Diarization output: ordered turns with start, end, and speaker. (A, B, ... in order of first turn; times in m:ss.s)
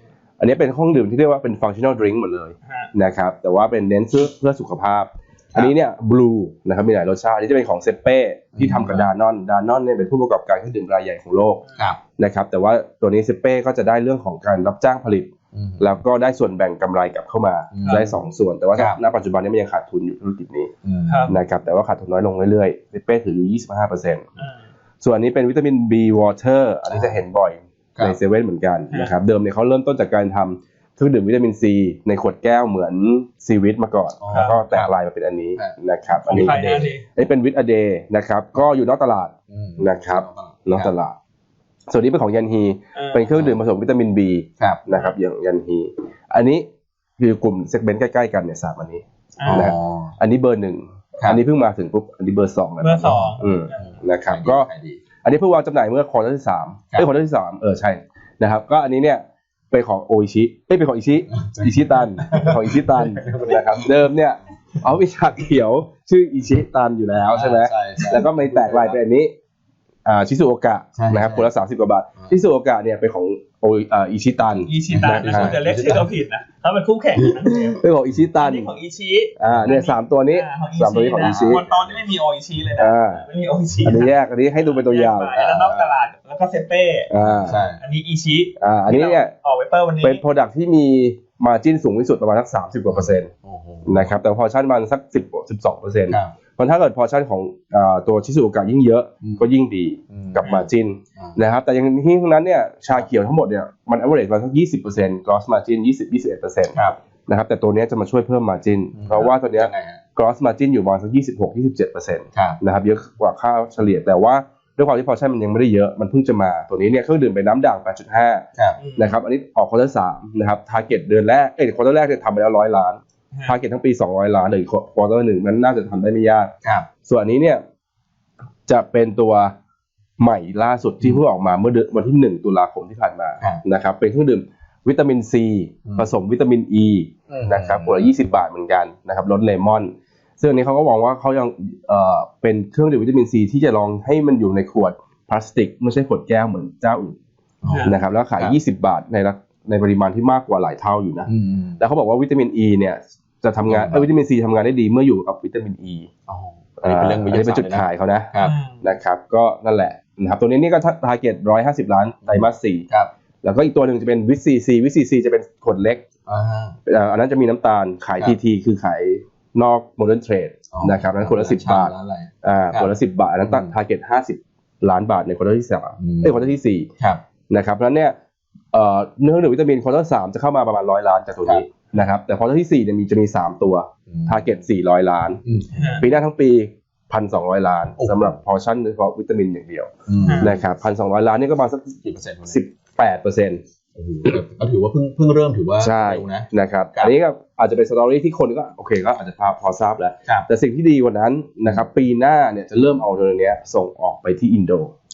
0:00.4-0:11.6 A
0:02.6-0:02.9 B
0:08.6-0:09.1 C
0:11.6-0:11.9 B
0:12.2-0:20.7 A
0:15.5-0:16.0 C
0:17.7-0:18.2 C
0:18.8-0:19.0 C
0:20.8-0:21.4 C
0:21.1-0:21.3 B
0:21.3-0:24.3 A
0:24.4-0:24.6 B
0:25.0-0:41.1 A
0:26.9-0:27.2 C
0:34.2-0:34.7 C
0:34.3-0:34.9 B
0:35.6-0:36.6 C
0:36.2-0:37.0 B
0:39.5-0:40.9 C
0:41.9-0:46.6 A
0:42.9-0:43.3 B
0:43.3-0:43.6 C
0:44.6-0:44.8 C
0:47.2-0:54.7 A
0:49.4-0:49.7 B
0:49.4-0:50.1 C
0:52.8-0:53.9 B
0:53.0-0:55.0 C
0:55.2-1:09.3 A
1:01.4-1:04.0 C
1:07.3-1:09.0 C
1:10.0-1:15.6 A
1:10.9-1:11.5 C
1:14.6-1:17.8 B
1:14.9-1:16.1 C
1:17.2-1:17.5 C
1:17.8-1:18.7 A
1:18.4-1:30.2 B
1:19.4-1:21.6 A
1:19.5-1:19.8 C
1:21.2-1:22.0 C
1:22.8-1:23.2 A
1:23.8-1:25.3 A
1:25.3-1:26.0 C
1:27.1-1:27.6 A
1:27.2-1:27.8 C
1:28.6-1:29.3 A
1:30.0-1:33.3 A
1:32.9-1:34.1 C
1:33.8-1:58.4 A
1:36.1-1:36.3 C
1:40.1-1:40.6 C
1:40.4-1:40.7 B
1:46.7-1:47.0 C
1:48.9-1:50.0 C
1:52.3-1:52.6 C
1:58.8-1:59.2 B
1:59.0-2:06.5 A
2:07.0-2:07.6 A
2:08.7-2:09.5 A
2:10.2-2:27.2 A
2:17.3-2:18.2 C
2:27.6-2:28.6 C
2:27.7-2:28.0 B
2:27.8-2:36.1 A
2:31.2-2:31.8 C
2:33.7-2:34.1 C
2:36.3-2:38.6 C
2:36.8-2:42.9 A
2:38.4-2:38.9 B
2:42.2-2:43.1 C
2:43.4-2:46.0 A
2:46.2-2:46.8 C
2:46.8-2:56.9 A
2:50.7-2:53.7 C
2:56.0-2:57.2 C
2:57.5-2:58.1 A
2:58.7-3:05.4 A
3:04.1-3:04.6 C
3:05.4-3:06.0 C
3:05.7-3:06.1 B
3:06.0-3:13.6 A
3:08.0-3:08.4 C
3:10.1-3:10.6 C
3:10.2-3:10.5 B
3:12.0-3:12.6 C
3:13.9-3:17.1 C
3:15.8-3:24.9 A